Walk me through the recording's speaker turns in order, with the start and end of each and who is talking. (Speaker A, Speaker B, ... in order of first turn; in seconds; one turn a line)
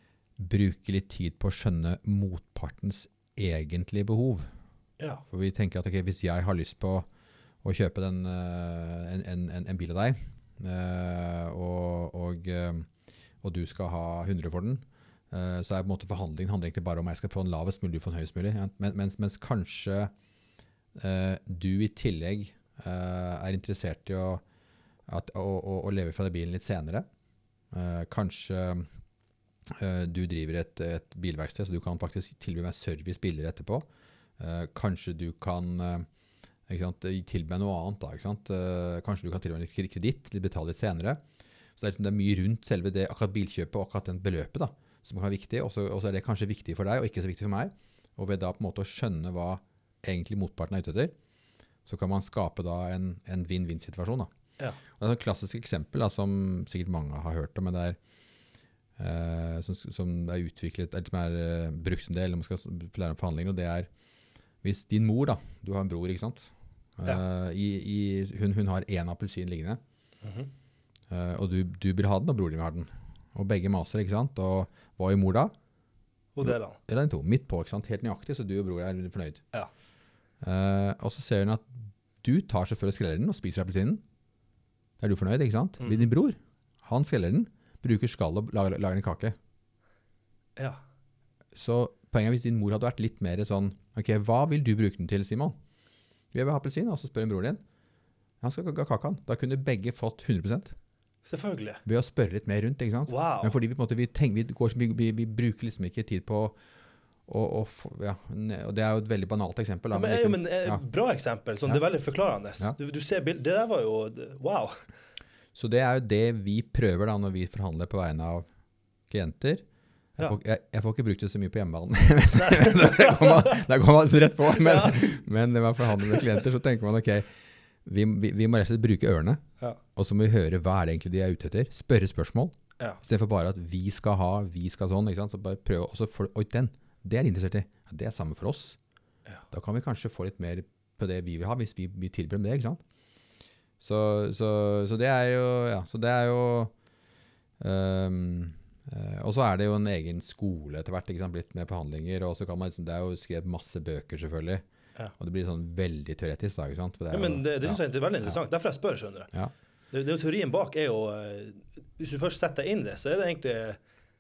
Speaker A: 0.4-4.5
Speaker A: 5.3-7.1
Speaker A: 7.6-12.9
Speaker A: 13.4-20.1
Speaker A: 20.9-24.4
Speaker A: 25.1-27.1
Speaker A: 27.7-28.9
Speaker A: 29.7-33.9
Speaker A: 34.4-36.1
Speaker A: 36.7-41.2
Speaker A: 41.8-51.1
Speaker A: 51.9-54.3
Speaker A: 54.9-58.0
Speaker A: 59.0-63.9
Speaker A: 64.6-69.8
Speaker B: 70.2-70.5
Speaker A: 71.1-75.5
Speaker B: 76.4-76.8
Speaker A: 76.4-79.4
Speaker A: 80.4-84.0
Speaker A: 85.0-89.3
Speaker B: 85.8-86.1
Speaker A: 91.5-95.6
Speaker A: 96.3-97.6
Speaker A: 98.4-100.8
Speaker B: 101.2-101.8
Speaker A: 101.8-106.6
Speaker B: 103.1-103.6
Speaker A: 107.3-110.8
Speaker B: 109.9-114.8
Speaker A: 115.5-118.5
Speaker A: 119.1-119.6
Speaker A: 120.2-127.3
Speaker B: 122.3-123.6
Speaker B: 124.5-125.1
Speaker B: 126.0-126.3
Speaker A: 127.8-129.4
Speaker A: 130.0-138.8
Speaker A: 139.5-142.8
Speaker A: 143.8-146.7
Speaker A: 147.6-154.6
Speaker A: 155.2-158.3
Speaker B: 157.1-159.3
Speaker B: 159.9-163.8